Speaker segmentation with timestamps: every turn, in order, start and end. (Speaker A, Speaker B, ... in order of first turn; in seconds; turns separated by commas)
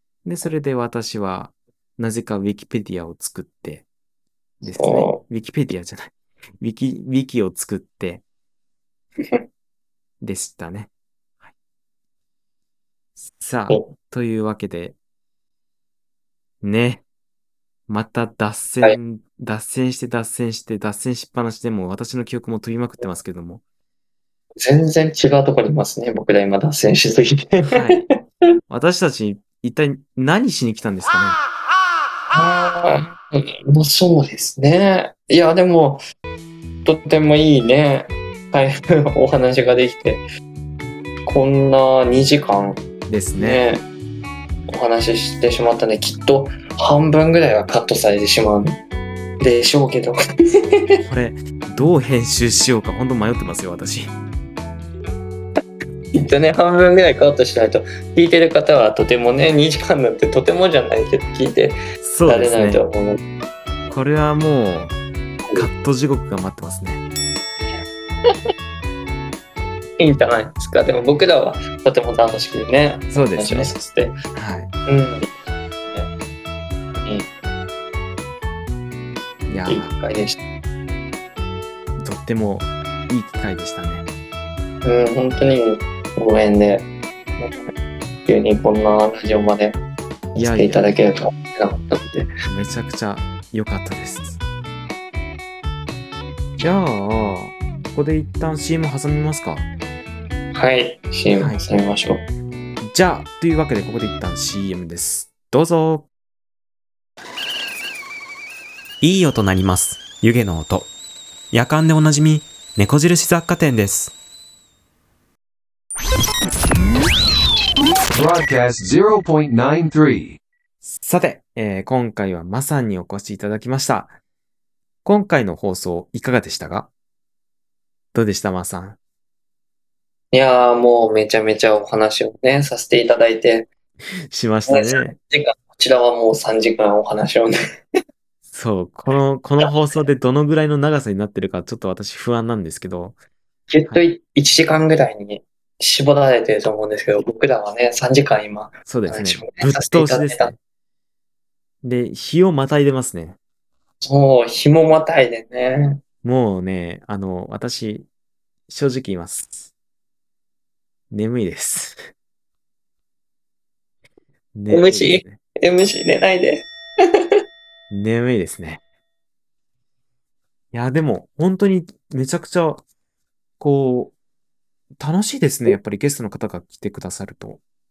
Speaker A: 0.2-3.8, Speaker B: 4.6-5.2, Speaker A: 4.6-8.2, Speaker A: 10.2-10.9, Speaker A: 13.2-14.9, Speaker A: 16.6-17.0, Speaker A: 17.9-23.6, Speaker B: 24.6-27.8, Speaker A: 27.7-28.1, Speaker A: 28.7-31.4, Speaker B: 32.3-36.0, Speaker B: 36.8-40.2, Speaker B: 41.2-42.8, Speaker A: 43.1-43.6, Speaker B: 43.4-43.9, Speaker B: 44.7-48.8, Speaker B: 49.4-51.0, Speaker A: 51.0-54.1, Speaker B: 56.1-63.2, Speaker A: 62.0-62.9, Speaker A: 63.9-65.0, Speaker A: 65.5-67.0, Speaker B: 70.0-74.2, Speaker A: 73.1-73.7, Speaker A: 74.3-74.7, Speaker B: 74.9-76.1, Speaker B: 76.9-77.3, Speaker A: 79.5-79.9, Speaker B: 79.7-80.4, Speaker A: 82.0-84.0, Speaker B: 84.8-86.8, Speaker B: 87.4-87.7, Speaker B: 88.2-89.8, Speaker B: 90.3-92.3, Speaker A: 90.3-90.9, Speaker A: 92.5-94.4, Speaker A: 96.6-99.7, Speaker B: 100.5-102.3, Speaker A: 101.3-101.6, Speaker A: 102.8-106.1, Speaker A: 109.0-110.9, Speaker A: 111.5-114.1, Speaker C: 118.1-120.4, Speaker A: 120.8-124.2, Speaker A: 125.0-126.9, Speaker A: 128.1-129.0, Speaker B: 130.3-133.7, Speaker A: 134.3-135.2, Speaker B: 134.7-137.5, Speaker A: 138.5-143.2, Speaker B: 143.7-150.5, Speaker A: 148.8-150.6, Speaker A: 151.8-153.4, Speaker B: 154.0-156.0, Speaker A: 156.2-158.1, Speaker A: 158.7-159.7, Speaker A: 161.1-162.0, Speaker A: 164.5-165.4, Speaker B: 164.7-167.1, Speaker A: 167.9-168.8, Speaker A: 170.7-172.8, Speaker A: 173.6-174.1, Speaker A: 175.0-177.6